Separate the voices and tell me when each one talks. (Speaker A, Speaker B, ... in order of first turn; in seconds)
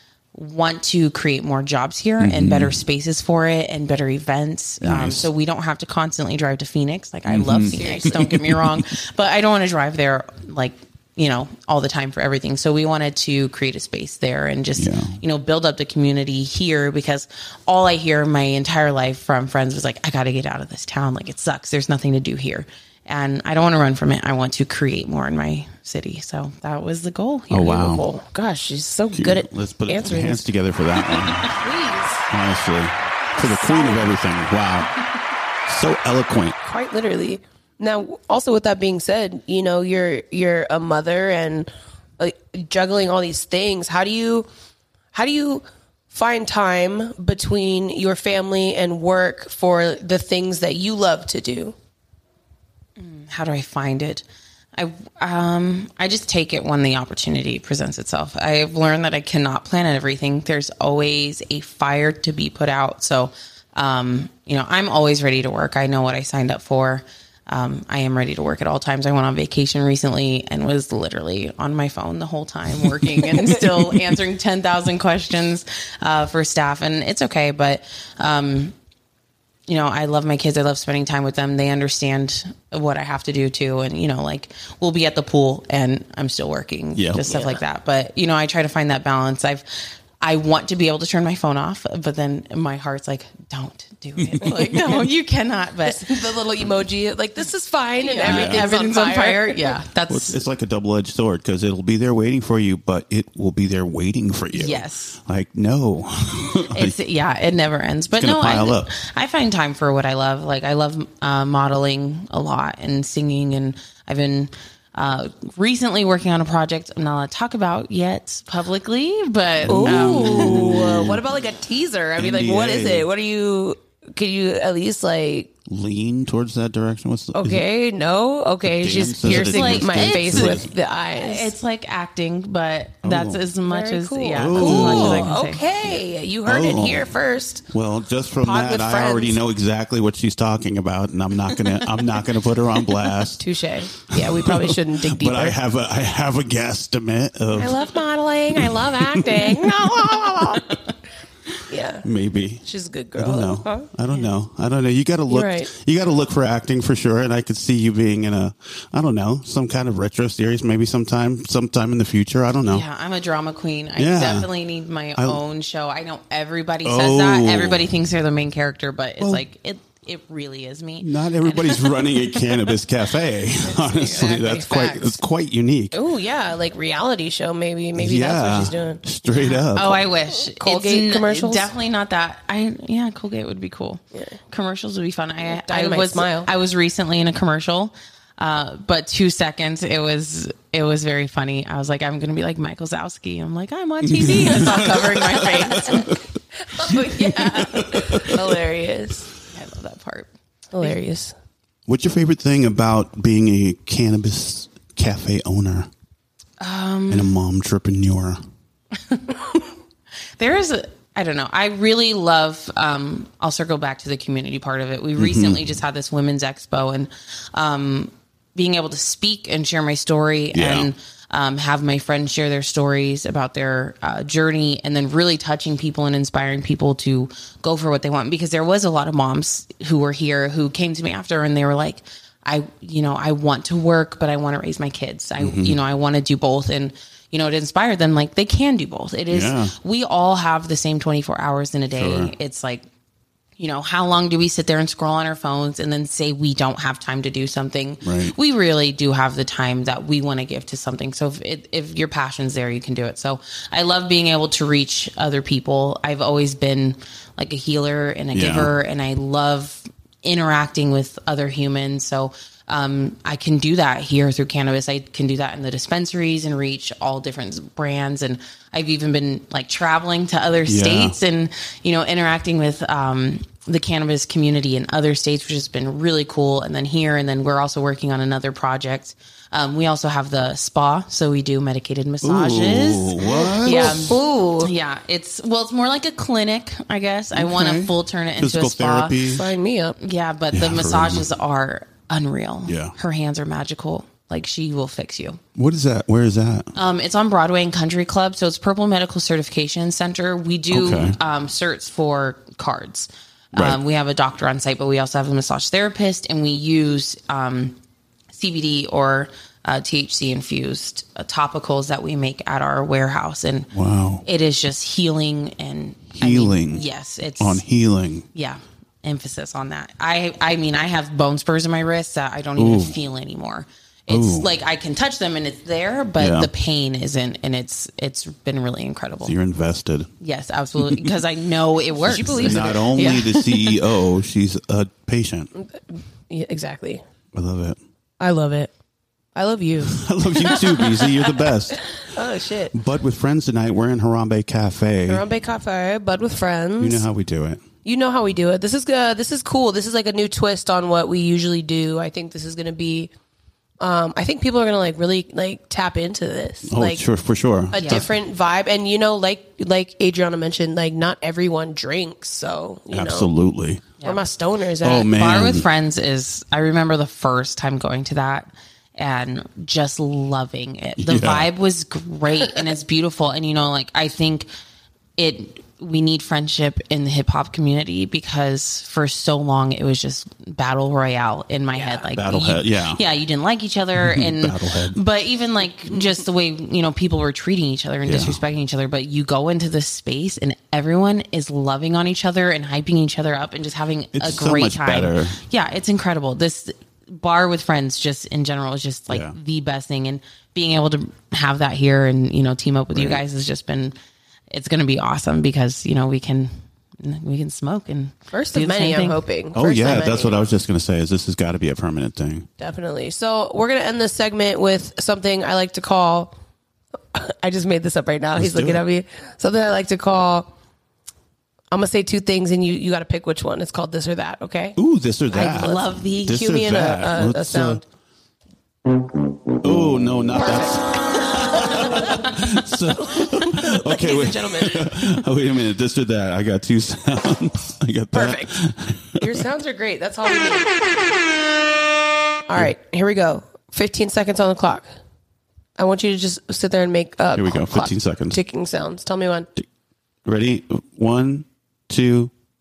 Speaker A: 0.3-27.7, 31.2-31.5, 53.0-54.2, 54.7-78.7, 79.7-96.0, 98.0-100.4, 104.5-105.2, 106.7-120.8, 129.3-130.6, 131.1-136.0, 162.7-172.6, 179.4-196.2, 196.7-198.3, 199.4-201.0, 206.6-207.4, 208.9-209.7, 210.4-242.8, 243.6-289.3, 290.0-295.4, 296.7-307.8, 308.3-313.7, 314.2-317.6, 318.3-329.4, 330.2-333.8, 357.8-358.1, 364.9-374.5, 375.2-403.9, 404.5-409.2, 425.3-426.4
Speaker B: 2.2-2.8, 4.8-5.3, 7.2-8.6, 14.8-15.2, 27.5-28.1, 29.1-31.6, 32.3-34.9, 35.7-36.6, 86.9-87.3, 94.2-94.8, 98.2-98.7, 100.1-106.9, 108.2-108.9, 119.6-121.2, 122.2-123.1, 125.7-127.6, 128.6-130.7, 133.0-133.4, 134.3-135.3, 136.4-137.1, 137.7-143.4, 144.0-147.8, 148.5-150.7, 152.0-152.6, 153.2-162.8, 164.0-164.5, 165.2-165.4, 166.8-167.9, 171.0-176.0, 177.9-180.0, 194.0-196.2, 196.8-198.4, 201.8-205.9, 207.1-208.4, 215.2-215.8, 220.5-220.9, 235.4-235.8, 239.3-239.7, 241.9-242.3, 248.0-248.3, 258.3-258.8, 270.6-271.2, 282.2-284.2, 287.3-289.4, 290.5-291.3, 292.6-292.9, 295.5-296.7, 300.7-301.2, 313.7-314.2, 316.1-316.8, 317.4-318.2, 322.6-323.0, 324.1-324.5, 326.2-326.5, 329.2-330.1, 330.8-331.1, 332.1-335.5, 337.3-337.8, 339.8-342.0, 342.7-345.2, 346.8-347.6, 356.7-358.1, 362.9-363.9, 364.8-365.6, 371.0-371.5, 382.1-383.0, 384.0-385.0, 388.0-388.4, 394.1-395.4, 399.1-399.4, 402.9-403.2, 409.5-412.5, 418.4-418.8, 424.8-427.8, 429.6-439.4, 447.3-448.4, 450.2-452.3
Speaker C: 7.7-8.2, 27.6-30.4, 31.6-32.3, 33.3-34.1, 36.6-44.5, 45.1-51.7, 87.2-87.6, 95.8-99.8, 119.6-125.5, 127.3-131.5, 133.6-137.6, 138.4-139.4, 143.4-145.6, 147.5-150.8, 151.7-152.1, 152.6-153.9, 155.3-155.7, 173.6-175.2, 175.9-179.0, 180.5-181.7, 185.4-186.5, 197.9-199.3, 200.7-201.3, 283.2-284.7, 289.3-290.0, 332.0-333.3, 335.6-337.0, 338.2-338.7, 339.3-342.7, 345.1-347.1, 347.8-353.1, 353.8-357.0, 357.7-363.3, 364.0-365.1, 408.3-410.4, 412.6-416.3, 417.1-420.5, 421.7-424.8, 425.4-427.8, 430.3-430.8, 431.3-432.4, 433.0-435.1, 438.1-438.6, 439.2-440.7, 442.5-444.9, 445.8-449.5